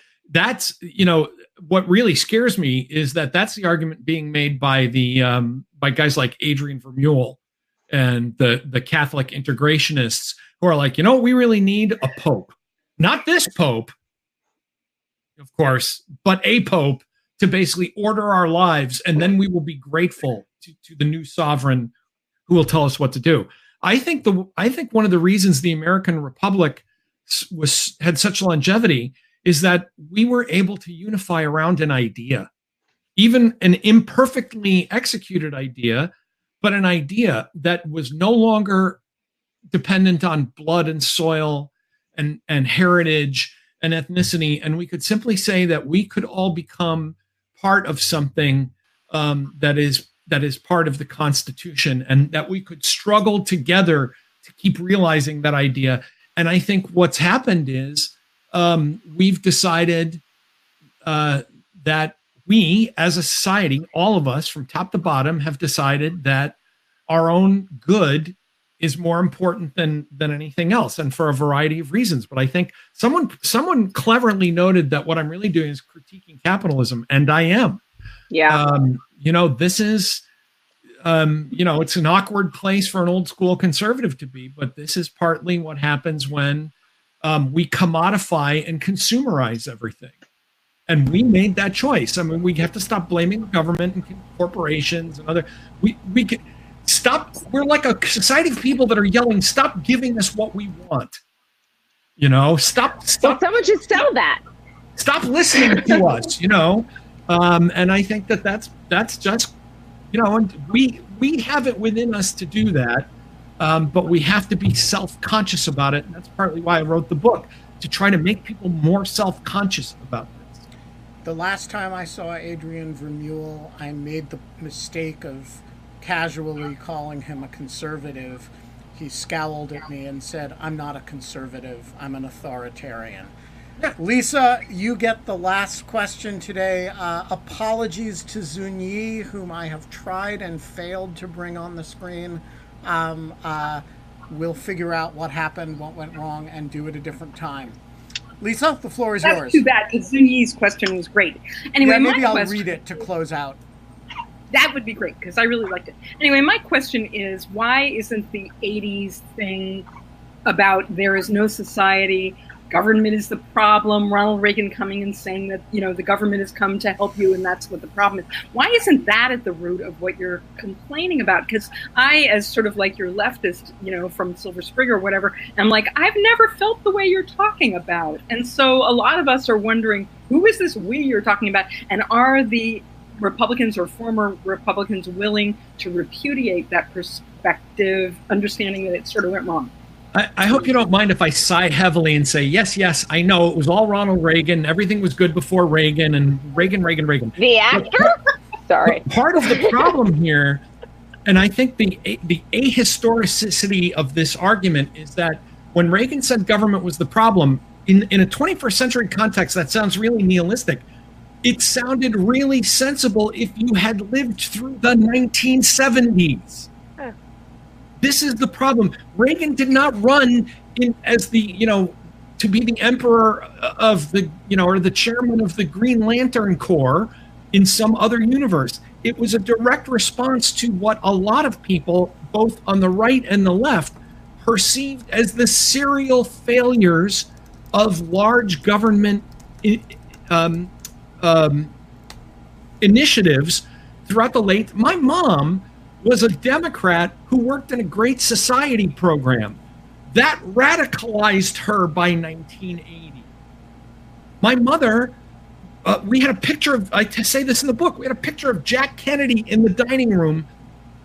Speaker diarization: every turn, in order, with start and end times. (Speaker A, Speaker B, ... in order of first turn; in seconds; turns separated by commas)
Speaker A: 0.3-7.4, Speaker A: 7.9-13.9, Speaker A: 15.4-21.9, Speaker A: 22.5-32.5, Speaker A: 33.2-39.0, Speaker A: 39.7-60.2, Speaker A: 61.0-66.5, Speaker A: 67.1-77.8, Speaker B: 78.3-78.6, Speaker A: 78.5-80.2, Speaker A: 81.0-90.2, Speaker A: 90.9-101.2, Speaker A: 102.2-103.4, Speaker B: 103.2-104.4, Speaker A: 105.0-109.5, Speaker A: 110.1-120.6, Speaker C: 121.2-133.3, Speaker C: 133.9-147.8, Speaker C: 148.4-149.6, Speaker D: 149.2-152.8, Speaker C: 151.8-153.6, Speaker D: 154.5-159.9, Speaker D: 160.4-189.7, Speaker A: 190.1-198.1, Speaker B: 197.4-199.8, Speaker A: 198.8-200.6, Speaker A: 201.3-210.8, Speaker A: 211.4-216.7, Speaker A: 218.0-241.7, Speaker A: 242.8-249.6, Speaker A: 250.1-253.3, Speaker A: 254.4-255.2, Speaker A: 255.8-260.5